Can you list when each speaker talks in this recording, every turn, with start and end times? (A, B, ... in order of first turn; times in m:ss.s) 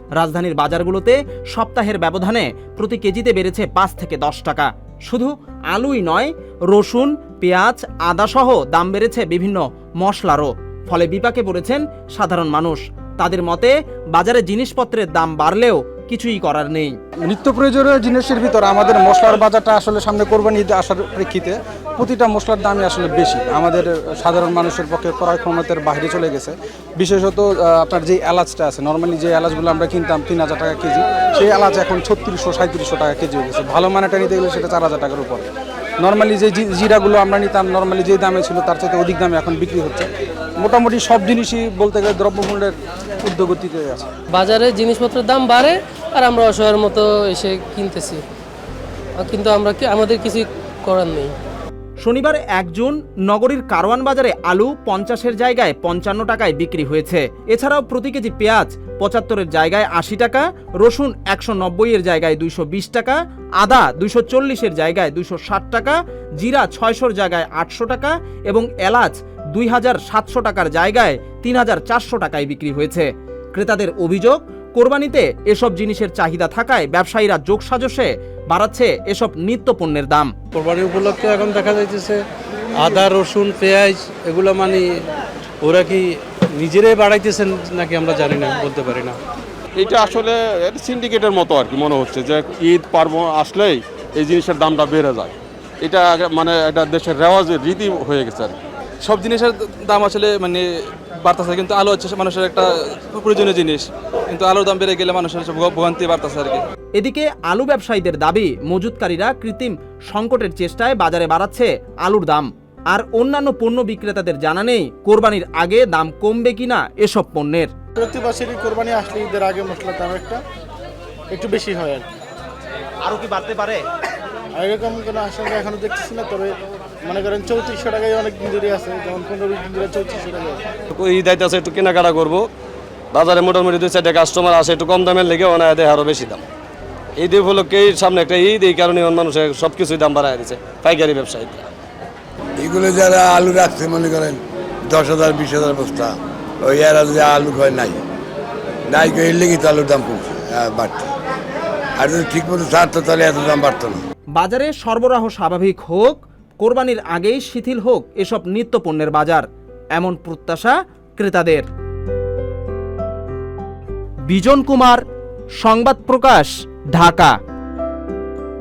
0:00.2-0:17.0 A
0:17.2-0:35.4 B
0:36.0-0:40.1 B
0:40.6-0:44.1 B
0:44.3-0:48.2 C
0:49.2-0:51.3 C
0:52.0-1:20.3 A
1:20.5-1:22.2 D
1:22.8-1:25.1 D
1:25.6-1:29.2 D
1:29.8-1:38.5 E
1:39.0-1:40.6 F
1:41.2-1:46.6 F
1:47.0-1:57.7 A
1:58.0-2:00.4 G
2:01.3-2:02.1 G
2:03.0-2:03.8 A
2:04.6-2:06.5 G
2:07.0-2:10.6 G
2:10.9-2:12.4 H
2:13.1-2:16.4 H
2:17.2-2:21.6 H
2:22.6-2:28.0 I
2:28.9-2:31.1 I
2:32.0-2:34.0 I
2:34.4-2:41.7 A
2:44.3-2:45.0 A
2:45.6-2:47.4 A